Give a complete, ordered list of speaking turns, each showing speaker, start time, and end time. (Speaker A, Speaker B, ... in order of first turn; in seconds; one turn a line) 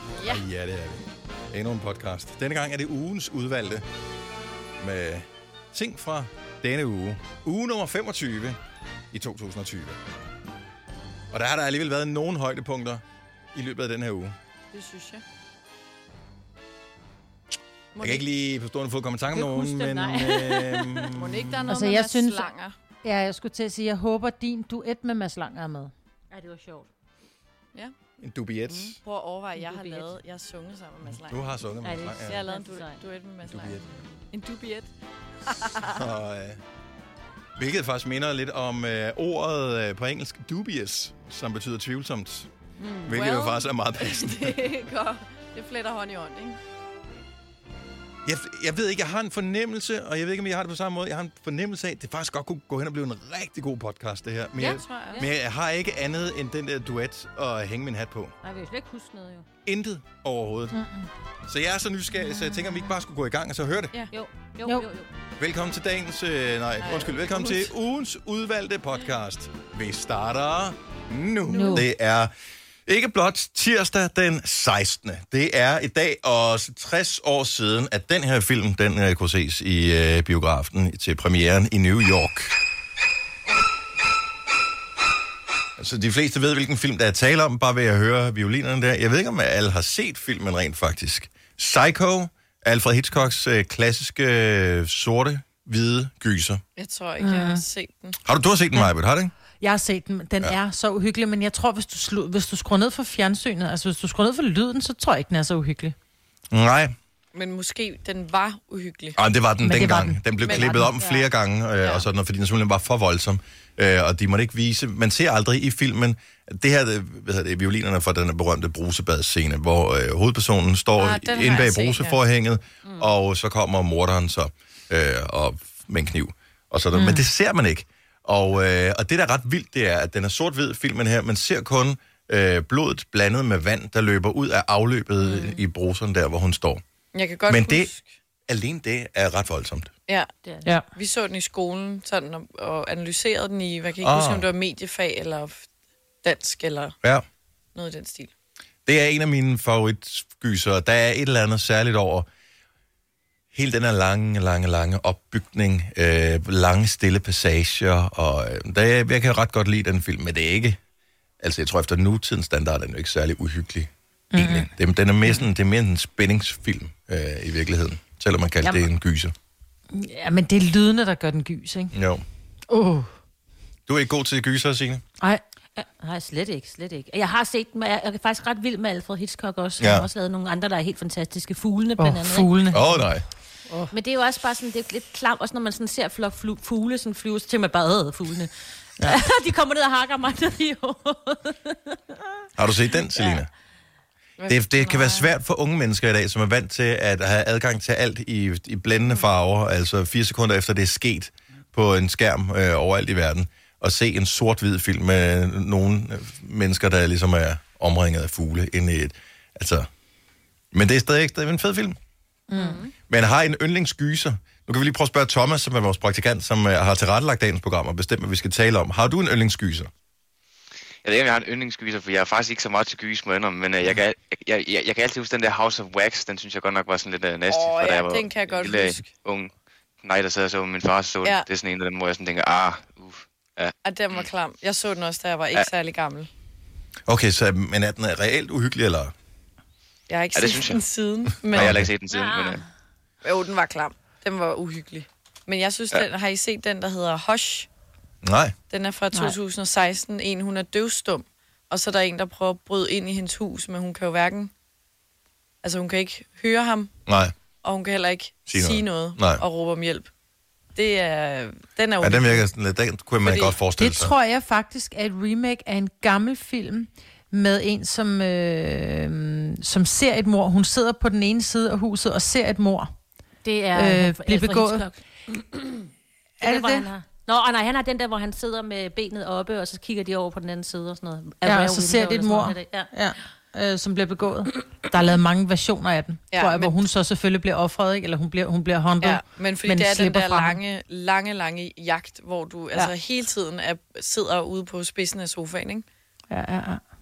Speaker A: 0.2-3.9
Speaker A: 4.8-8.6
Speaker A: 9.1-10.0
Speaker A: 11.3-13.0
Speaker A: 13.5-14.3
Speaker B: 14.7-15.2
Speaker B: 17.9-18.2
Speaker A: 18.0-21.6
Speaker C: 19.3-21.1
Speaker B: 21.2-22.7
Speaker D: 21.7-22.4
Speaker D: 23.0-25.9
Speaker C: 26.3-26.9
Speaker A: 28.2-29.0
Speaker B: 29.0-31.5
Speaker C: 29.6-30.2
Speaker A: 31.2-32.4
Speaker C: 31.8-33.0
Speaker B: 32.3-34.9
Speaker A: 33.5-33.8
Speaker B: 35.5-36.0
Speaker A: 35.9-36.6
Speaker A: 37.6-42.5
Speaker C: 42.8-43.2
Speaker A: 43.1-44.7
Speaker B: 43.1-46.6
Speaker A: 48.2-58.3
Speaker B: 54.6-55.2
Speaker C: 58.4-59.5
Speaker A: 59.6-60.8
Speaker D: 60.7-61.1
Speaker A: 61.5-63.9
Speaker C: 64.1-65.1
Speaker A: 65.4-72.3
Speaker B: 66.8-67.7
Speaker D: 71.5-71.9
Speaker A: 72.9-82.5
Speaker A: 85.8-96.6
Speaker B: 96.8-98.2
Speaker D: 97.2-97.6
Speaker A: 98.2-99.3
Speaker D: 99.6-106.0
Speaker A: 106.5-107.0
Speaker B: 107.3-109.2
Speaker A: 109.2-136.8
Speaker D: 109.6-110.9
Speaker B: 110.5-111.3
Speaker B: 121.0-122.2
Speaker C: 122.8-123.1
Speaker D: 126.9-127.2
Speaker B: 135.2-135.6
Speaker B: 137.1-138.1
Speaker A: 137.5-137.9
Speaker A: 138.5-139.9
Speaker C: 140.4-140.7
Speaker B: 140.9-145.7
Speaker A: 144.0-144.4
Speaker B: 146.2-146.9
Speaker B: 147.8-148.3
Speaker A: 148.9-152.3
Speaker A: 153.5-160.8
Speaker A: 161.4-169.3
Speaker D: 164.3-164.7
Speaker D: 169.9-171.9
Speaker A: 171.9-172.2
Speaker D: 172.7-173.1
Speaker A: 173.9-175.0
Speaker C: 175.8-182.6
Speaker A: 179.8-180.1
Speaker D: 182.0-183.1
Speaker A: 182.7-183.2
Speaker C: 183.9-192.2
Speaker A: 192.6-193.5
Speaker B: 194.4-195.3
Speaker A: 194.5-209.9
Speaker A: 210.7-212.0
Speaker D: 212.5-212.8
Speaker C: 212.5-212.9
Speaker A: 213.1-219.9
Speaker E: 221.0-229.5
Speaker B: 227.5-229.1
Speaker E: 230.0-234.2
Speaker B: 233.8-236.3
Speaker A: 237.1-239.1
Speaker B: 240.1-241.8
Speaker E: 240.3-240.8
Speaker A: 241.5-241.9
Speaker E: 241.5-242.6
Speaker C: 242.1-242.7
Speaker B: 243.2-247.7
Speaker A: 248.2-248.5
Speaker B: 248.7-254.5
Speaker B: 255.6-256.9
Speaker A: 257.1-257.3
Speaker B: 257.6-260.1
Speaker A: 258.5-259.4
Speaker B: 260.8-262.4
Speaker A: 262.0-264.1
Speaker B: 263.2-263.5
Speaker D: 263.8-272.9
Speaker C: 273.4-275.9
Speaker D: 273.8-274.9
Speaker C: 276.4-282.9
Speaker D: 276.4-276.9
Speaker D: 281.4-290.6
Speaker B: 286.3-286.8
Speaker B: 289.0-295.8
Speaker D: 296.3-296.8